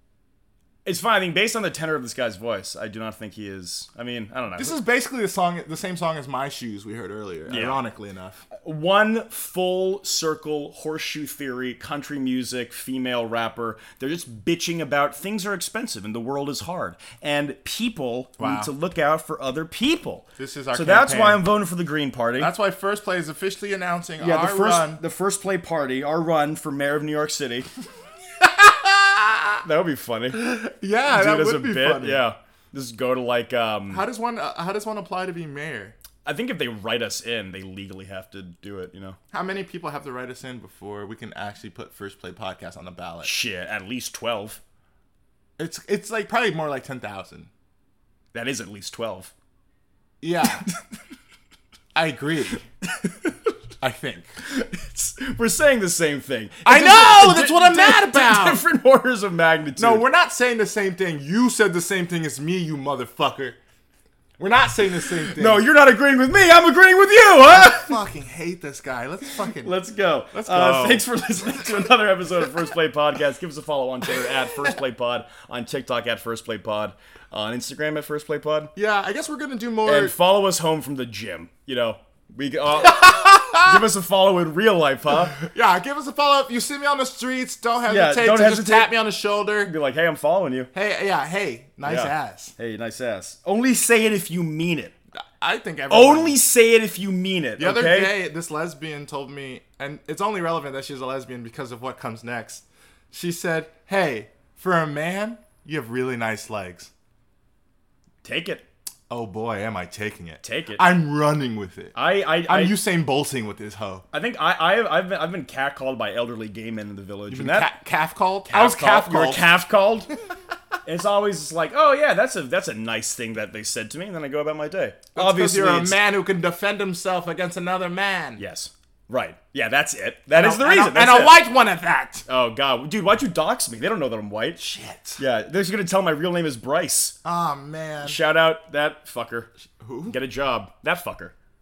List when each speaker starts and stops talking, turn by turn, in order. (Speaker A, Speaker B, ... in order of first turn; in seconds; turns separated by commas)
Speaker A: 0.8-4.8, Speaker B: 4.6-8.4, Speaker A: 7.5-7.8, Speaker A: 8.6-22.5, Speaker B: 18.4-18.7, Speaker B: 20.4-21.4, Speaker B: 22.4-25.0, Speaker A: 24.2-27.7, Speaker B: 28.4-29.6, Speaker A: 29.6-34.0, Speaker B: 30.3-32.2, Speaker B: 33.9-36.0, Speaker A: 36.2-39.2, Speaker B: 39.3-43.3, Speaker A: 43.2-44.6, Speaker B: 45.6-47.5, Speaker A: 48.3-49.3, Speaker B: 50.2-50.6, Speaker B: 51.9-52.6, Speaker A: 52.9-53.3, Speaker B: 53.8-54.4, Speaker A: 54.4-60.0, Speaker B: 56.6-58.6, Speaker B: 59.8-63.6, Speaker B: 64.4-65.6, Speaker A: 65.2-68.0, Speaker B: 67.5-69.8, Speaker A: 69.5-78.7, Speaker B: 70.3-71.9, Speaker B: 78.8-80.1, Speaker A: 79.8-85.4, Speaker B: 82.8-83.9, Speaker B: 85.1-89.7, Speaker A: 87.8-89.0, Speaker A: 89.6-90.7, Speaker B: 90.7-92.5, Speaker A: 91.8-94.9, Speaker B: 95.2-96.4, Speaker A: 95.9-98.2, Speaker B: 97.6-106.9, Speaker A: 108.2-108.6, Speaker B: 109.1-114.0, Speaker A: 110.4-110.8, Speaker A: 111.9-112.8, Speaker A: 114.1-117.7, Speaker B: 117.3-119.5, Speaker A: 118.5-120.1, Speaker A: 120.8-126.0, Speaker B: 125.1-128.4, Speaker A: 128.4-131.5, Speaker B: 130.3-132.2, Speaker A: 132.3-134.6, Speaker B: 134.6-135.2, Speaker A: 135.2-137.2, Speaker B: 137.2-138.2, Speaker A: 138.0-139.5, Speaker B: 139.8-140.2, Speaker A: 140.1-141.3